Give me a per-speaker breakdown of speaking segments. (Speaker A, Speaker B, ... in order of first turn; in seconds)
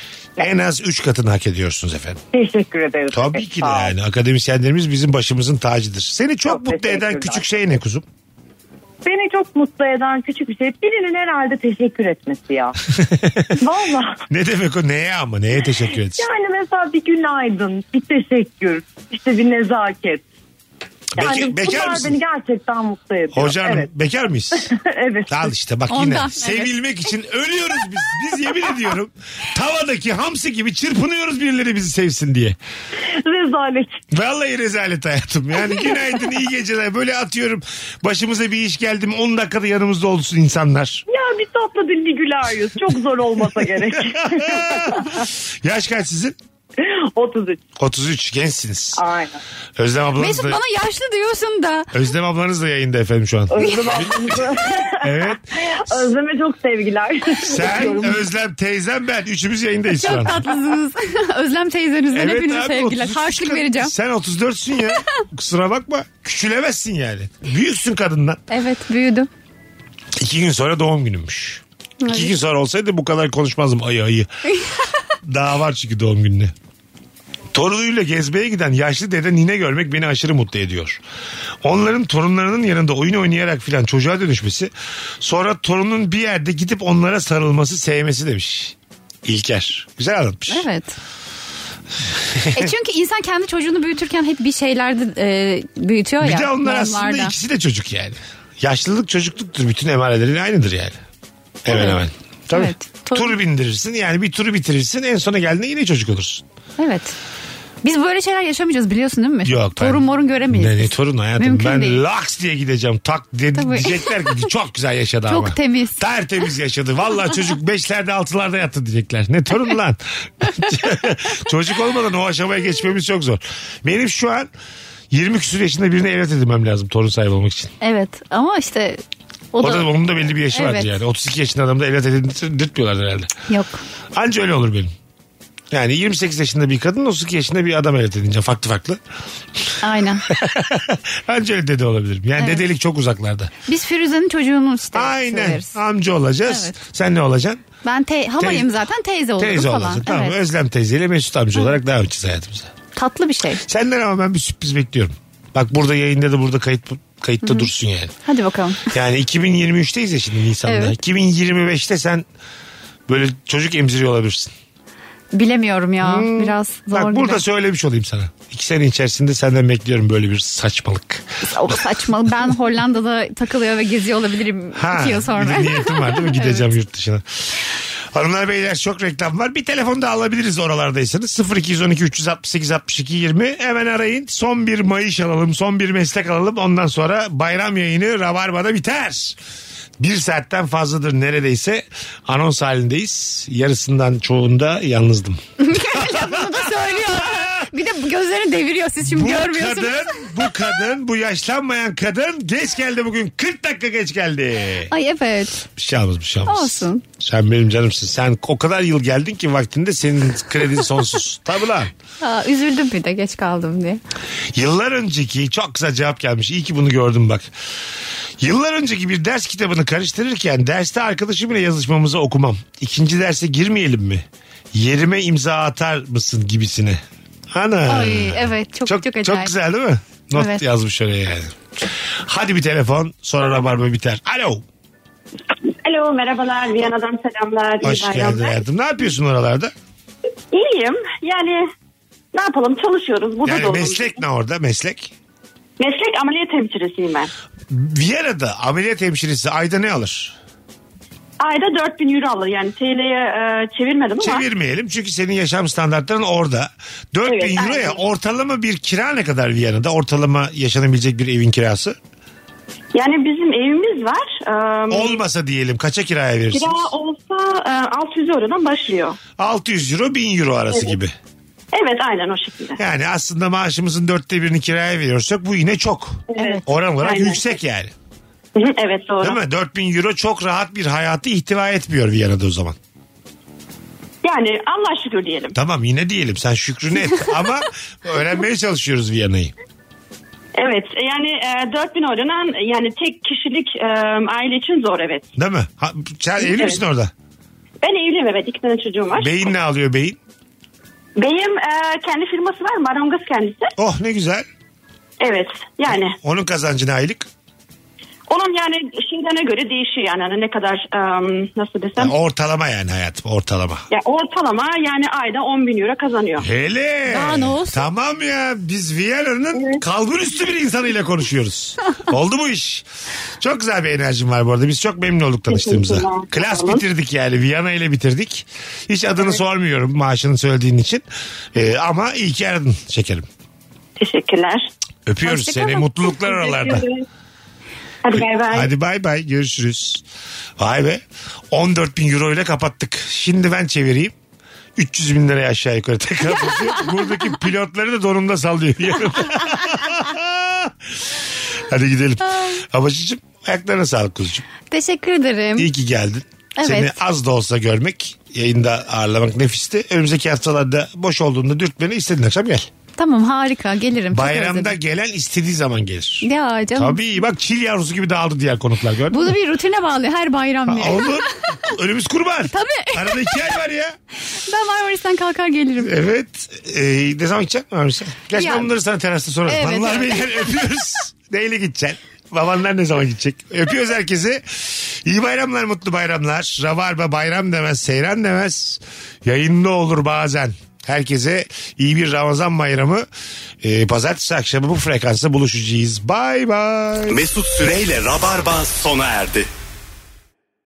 Speaker A: 0.4-2.2, 3.1-8.1, 13.1-13.5, 14.3-16.2, 21.2-22.1, 23.3-24.7, 25.3-32.6, 34.1-41.0, 43.6-46.4, 47.8-49.0, 49.8-50.6, 51.9-53.9, 55.0-55.5, 57.5-60.5, 62.1-68.4, 70.2-74.3, 75.2-76.5, 77.5-81.0, 81.6-90.7, 92.3-92.7, 96.2-101.0, 101.7-106.4, 109.5-124.5, 125.1-127.7, 129.6-133.3, 134.1-134.9, 135.7-139.0, 140.3-143.5, 144.9-147.7, 148.4-148.7, 149.4-152.8, 153.7-158.2, 158.9-162.3, 163.1-164.5, 166.0-171.8, 174.8-177.6, 178.1-189.4, 190.0-197.7, 199.0-204.9, 205.7-211.9, 214.5-217.5, 218.4-234.6, 237.8-239.7, 243.4-245.1, 247.7-250.3, 254.2-262.0, 264.9-266.9, 269.4-271.1, 272.8-277.9, 279.2-282.8, 285.6-289.5, 295.4-297.1, 299.1-300.2, 303.8-304.5, 305.9-307.3, 312.0-313.8, 316.4-322.9, 323.4-333.3, 335.1-336.9, 338.2-340.0, 340.6-344.1, 344.8-354.5, 355.6-362.7, 364.1-369.4, 370.7-373.9, 375.8-393.1, 393.6-397.2
Speaker B: 2.3-3.9, 6.5-7.4, 9.0-12.8, 13.6-14.2, 16.2-20.2, 21.2-23.9, 24.6-25.5, 33.1-34.0, 41.1-45.0, 46.8-47.6, 49.0-49.4, 53.5-58.2
Speaker C: 25.9-26.7, 50.2-51.9, 59.9-63.9, 68.5-69.3, 72.0-72.3, 90.5-90.9, 92.5-97.3, 101.7-102.0, 102.5-103.3, 106.8-107.2, 107.8-112.0, 113.6-114.1, 115.3-116.0, 127.8-129.0, 129.5-129.9, 130.5-130.9, 133.5-133.8, 139.8-140.2, 143.7-145.7, 146.5-146.8, 147.8-150.4, 152.9-153.6, 157.4-157.7, 158.3-158.9, 160.7-160.9, 165.3-167.4, 171.5-176.7, 195.6-200.3, 204.9-205.6, 206.5-207.0, 212.2-214.0, 227.9-229.5, 230.3-230.6, 276.4-276.6, 317.1-317.8, 335.4-335.8, 354.7-355.7, 356.6-356.9, 363.0-364.8, 366.2-367.0, 369.1-371.3, 372.5-373.4, 374.5-375.9, 378.3-378.7, 379.5-380.5
Speaker D: 235.8-238.6, 240.5-241.7, 242.3-244.2, 245.8-247.3, 251.4-254.4, 257.3-258.0, 262.9-265.2, 266.5-269.2, 271.7-272.8, 276.3-277.4, 278.6-279.4, 284.2-285.6, 290.6-295.3, 296.4-296.8, 297.8-299.5, 301.2-303.7, 305.2-306.2, 308.3-312.1, 313.9-316.5, 325.5-326.8, 334.0-334.7, 336.1-337.0, 338.0-338.7
Speaker E: 397.1-399.5